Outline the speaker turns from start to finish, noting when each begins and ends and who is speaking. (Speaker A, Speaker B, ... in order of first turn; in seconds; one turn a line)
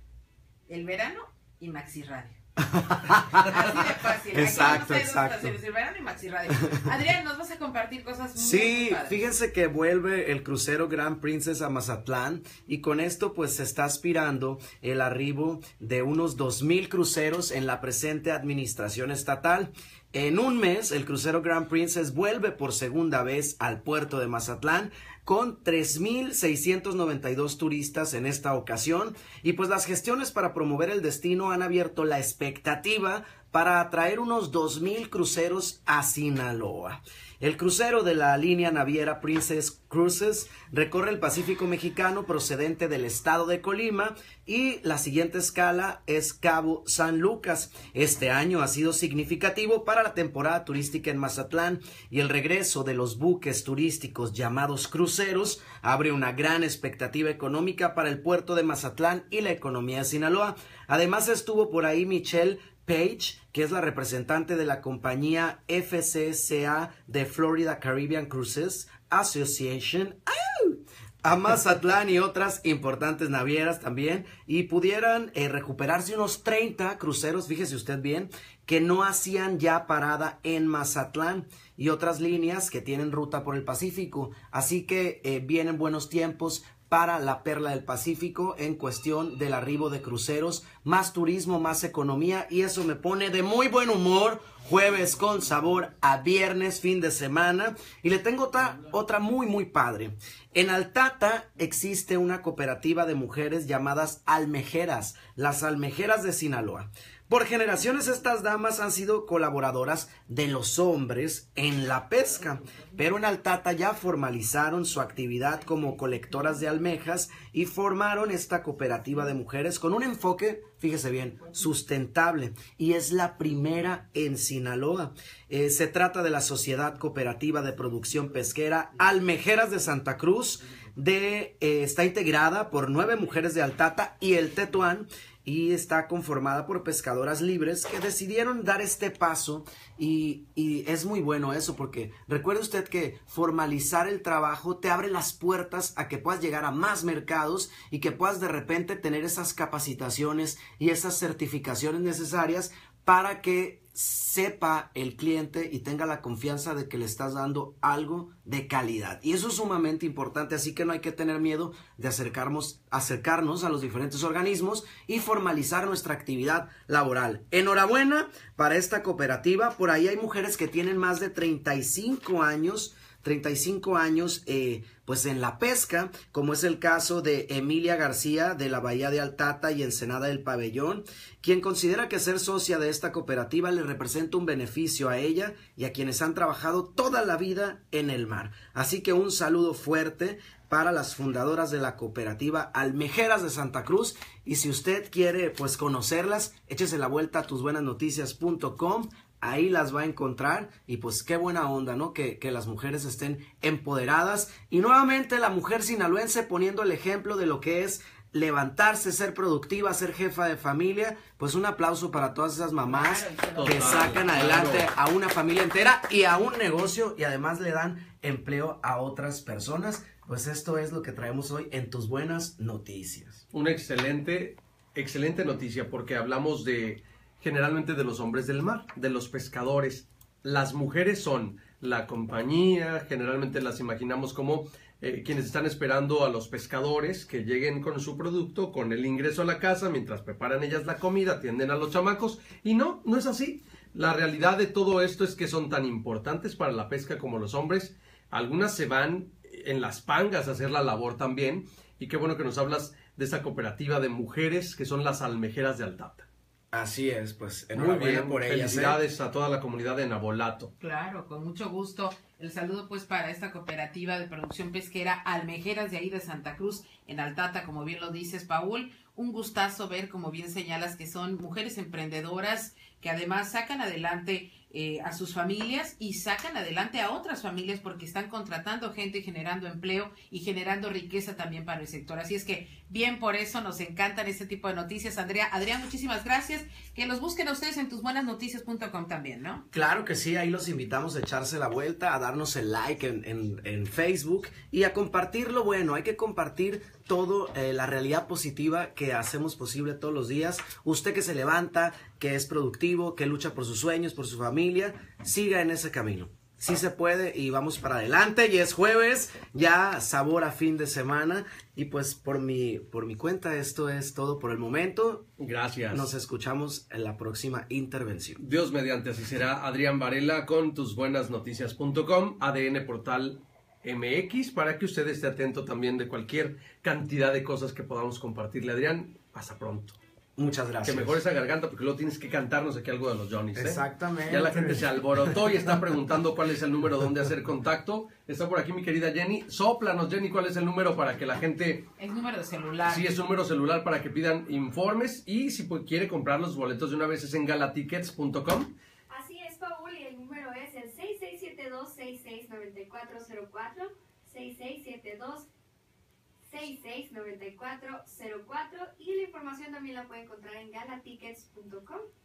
Speaker A: 0.7-2.4
Speaker B: 2.6-5.5
Speaker A: 3.3-9.3
Speaker B: 8.4-223.4
Speaker A: 212.9-214.5
Speaker C: 213.6-214.9
Speaker C: 223.5-256.3
Speaker B: 256.7-259.0
Speaker C: 257.7-260.7
Speaker A: 260.8-289.6
Speaker B: 289.7-315.3
Speaker C: 315.4-316.1
Speaker B: 315.9-318.4
Speaker C: 318.4-330.0
Speaker B: 330.4-331.2
Speaker C: 330.8-341.9
Speaker B: 333.6-335.8
Speaker A: 342.0-343.1
Speaker C: 342.9-348.7
Speaker D: 349.1-355.5
Speaker D: 356.5-362.0